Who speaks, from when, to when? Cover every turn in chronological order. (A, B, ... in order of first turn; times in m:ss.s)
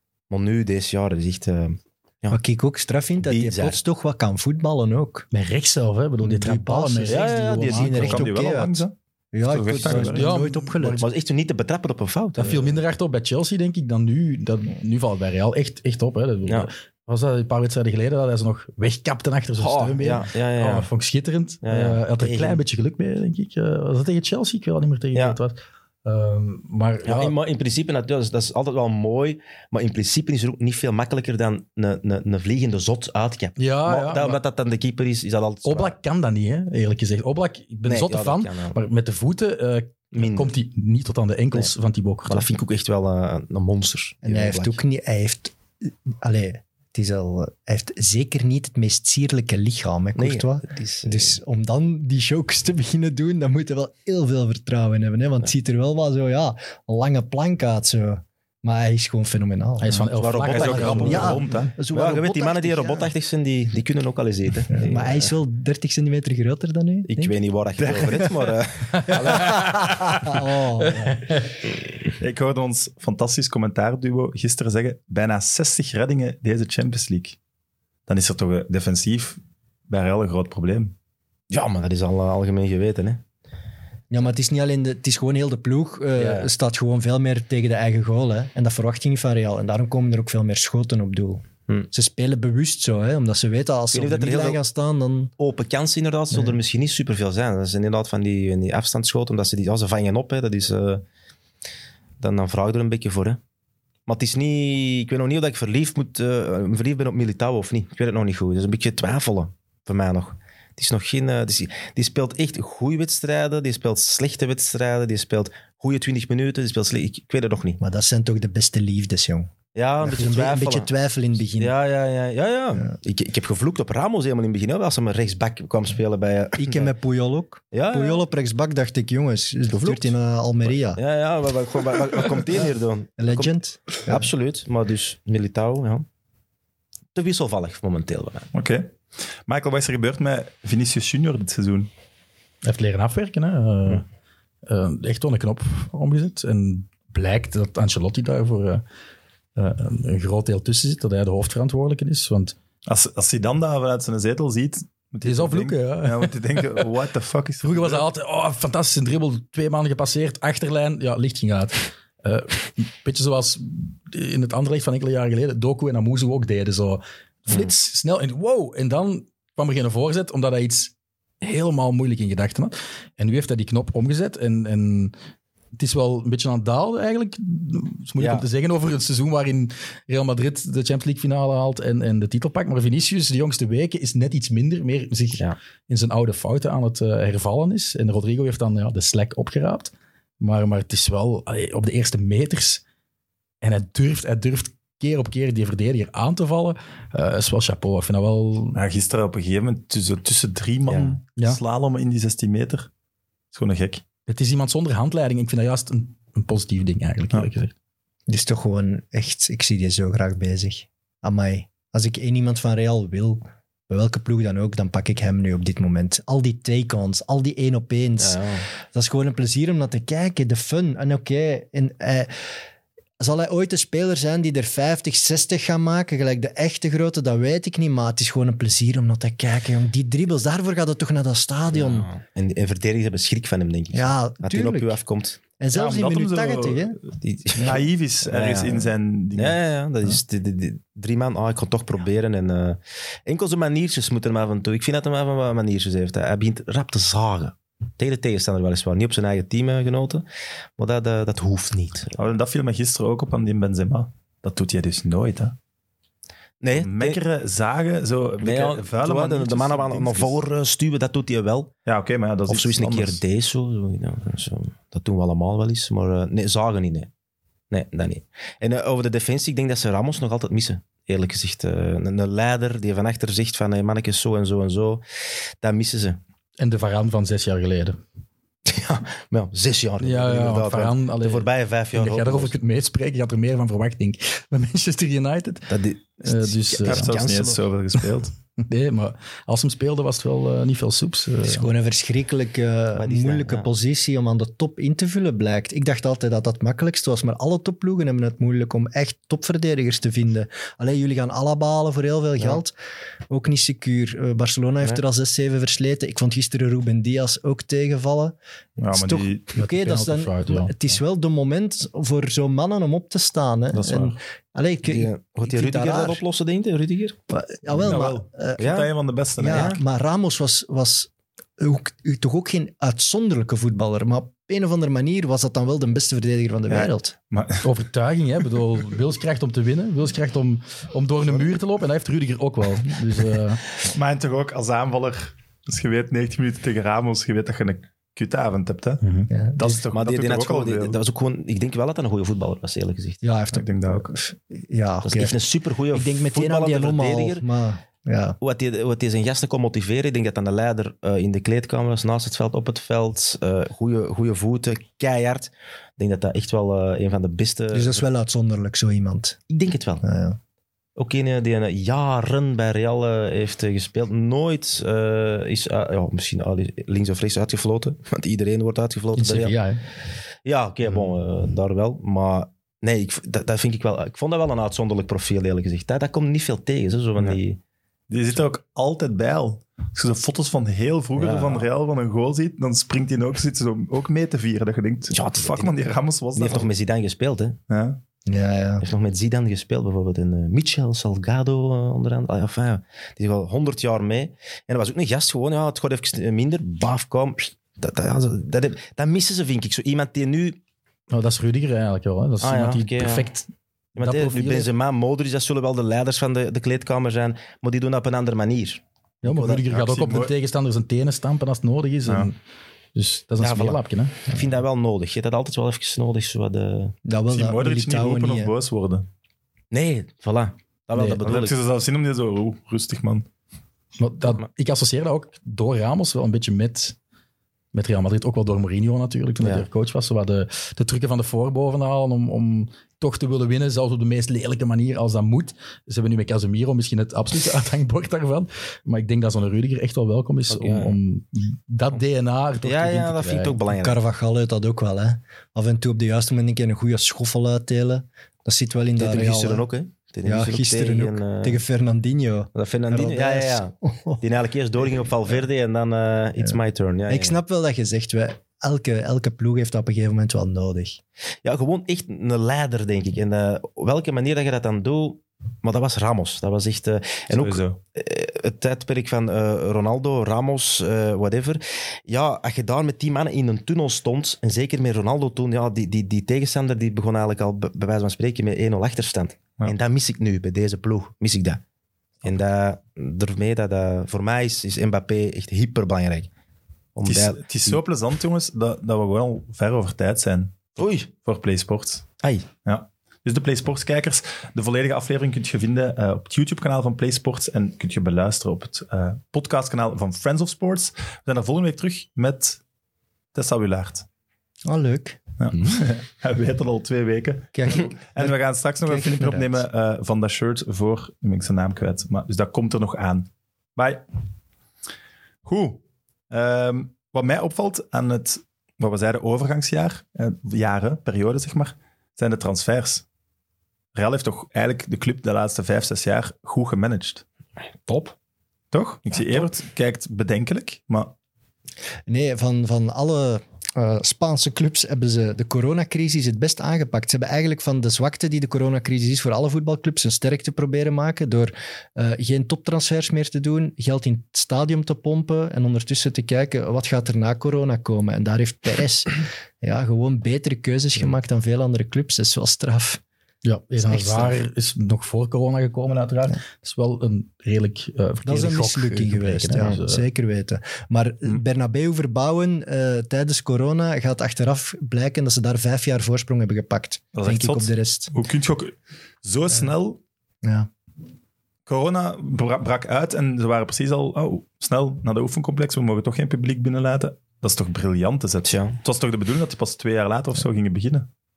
0:00.3-0:02.4 A
0:02.3-0:05.3 B
0:03.2-0:03.8 A
0:05.3-0:08.3 C
0:06.2-0:11.0 B
0:07.1-0:07.7 A
0:07.4-0:08.9 D
0:09.4-0:10.3 D
0:09.8-0:11.1 C
0:11.0-0:12.8 A
0:12.4-0:27.3 C
0:19.6-0:20.9 A
0:21.6-0:22.6 A
0:27.0-0:35.9 A
0:33.6-0:34.4 C
0:35.6-0:42.5 C
0:37.8-0:38.8 A
0:40.1-0:40.5 A
0:42.3-0:44.8 A
0:44.2-1:00.0 B
0:50.2-0:51.4 A
0:59.8-1:01.6 C
1:00.1-1:01.4 A
1:00.5-1:01.7 D
1:00.8-1:03.1 B
1:01.9-1:05.3 A
1:04.7-1:07.4 B
1:07.1-1:09.8 A
1:07.8-1:08.3 D
1:09.2-1:11.3 B
1:09.3-1:09.5 D
1:10.9-1:11.4 C
1:12.2-1:17.4 D
1:18.1-1:20.9 D
1:21.5-1:23.2 A
1:24.1-1:35.3 B
1:26.2-1:26.5 A
1:33.9-1:34.6 A
1:35.4-1:41.0 A
1:36.3-1:36.6 B
1:42.2-1:43.4 A
1:44.1-1:57.8 A
1:57.8-2:01.7 B
1:59.7-2:00.9 A
2:01.6-2:06.9 A
2:06.6-2:11.0 B
2:07.7-2:08.2 A
2:09.7-2:10.1 A
2:10.9-2:13.5 A
2:13.2-2:14.3 B
2:14.0-2:16.0 A
2:17.1-2:18.5 A
2:18.5-2:21.9 D
2:22.6-2:24.0 C
2:24.6-2:28.8 C
2:29.6-2:32.5 C
2:32.8-2:38.1 D
2:35.2-2:36.9 C
2:37.6-2:55.1 C
2:55.8-3:12.8 C
2:58.2-2:58.4 A
3:13.6-3:18.8 C
3:18.7-3:22.9 D
3:20.8-3:21.2 A
3:23.5-3:24.0 D
3:24.3-3:27.7 C
3:28.3-3:42.3 B
3:38.2-3:38.7 A
3:43.2-3:52.1 B
3:51.7-3:55.4 A
3:53.9-3:55.0 B
3:55.6-3:57.0 B
3:55.7-3:57.0 D
3:57.2-4:10.2 A
3:57.5-3:59.6 D
4:10.8-4:12.2 A
4:12.2-4:15.5 D
4:16.6-4:17.2 A
4:16.7-4:20.4 D
4:18.4-4:21.7 A
4:21.8-4:23.2 D
4:22.5-4:27.1 A
4:27.7-4:35.0 A
4:35.6-4:36.2 A
4:36.6-4:38.0 C
4:38.6-4:42.5 A
4:40.0-4:47.2 C
4:45.7-4:47.6 A
4:46.8-4:48.3 D
4:48.6-4:51.7 C
4:51.4-5:02.7 B
4:53.0-4:53.7 A
5:03.3-5:08.4 B
5:08.8-5:09.5 D
5:08.9-5:16.2 B
5:09.6-5:10.9 C
5:13.7-5:14.2 D
5:14.8-5:17.2 A
5:17.3-5:18.7 B
5:17.7-5:19.8 D
5:18.6-5:18.9 A
5:19.4-5:27.1 B
5:19.4-5:19.8 A
5:26.7-5:27.7 D
5:27.6-5:33.6 C
5:33.9-5:39.0 D
5:39.0-5:39.3 C
5:39.3-5:39.8 B
5:39.6-5:41.0 D
5:39.9-5:43.2 A
5:43.2-5:45.3 B
5:43.5-5:44.1 D
5:45.0-5:47.4 A
5:45.9-5:48.4 B
5:48.4-5:58.0 A
5:57.7-5:59.4 B
5:59.5-6:00.0 A
6:00.0-6:00.4 B
6:01.0-6:09.6 A
6:09.1-6:09.8 C
6:10.4-6:17.6 A
6:18.1-6:26.7 D
6:21.2-6:21.7 A
6:25.1-6:27.6 A
6:27.7-6:28.0 D
6:28.3-6:28.8 B
6:28.8-6:40.6 A
6:41.1-6:44.7 C
6:42.4-6:43.3 A
6:44.0-6:49.7 A
6:49.2-6:52.4 C
6:49.7-6:50.3 D
6:52.9-6:54.2 C
6:53.4-6:57.0 A
6:57.0-6:58.5 B
6:57.3-6:59.1 D
6:59.7-7:01.6 A
7:01.0-7:01.2 C
7:01.2-7:03.2 D
7:04.0-7:07.0 C
7:07.7-7:23.6 C
7:09.4-7:09.6 A
7:20.5-7:21.0 A
7:22.6-7:24.0 A
7:23.7-7:29.6 B
7:29.0-7:31.6 A
7:30.2-7:34.2 B
7:32.5-7:37.4 A
7:36.4-7:41.0 B
7:41.4-8:01.6 A
7:47.3-7:47.8 D
8:02.2-8:06.3 A
8:06.9-8:07.8 A
8:07.0-8:12.0 D
8:10.8-8:11.1 A
8:12.2-8:12.5 A
8:12.6-8:22.6 D
8:23.3-8:24.0 D
8:24.6-8:25.2 B
8:25.4-8:34.0 D
8:27.5-8:29.6 B
8:35.4-8:43.0 D
8:43.9-8:47.2 D
8:47.9-8:48.1 A
8:48.7-8:51.1 D
8:52.1-9:13.0 B
9:13.4-9:20.0 C
9:13.8-9:14.3 B
9:18.2-9:28.1 B
9:27.1-9:30.0 D
9:30.4-9:30.7 B
9:31.7-9:41.1 D
9:38.4-9:38.8 A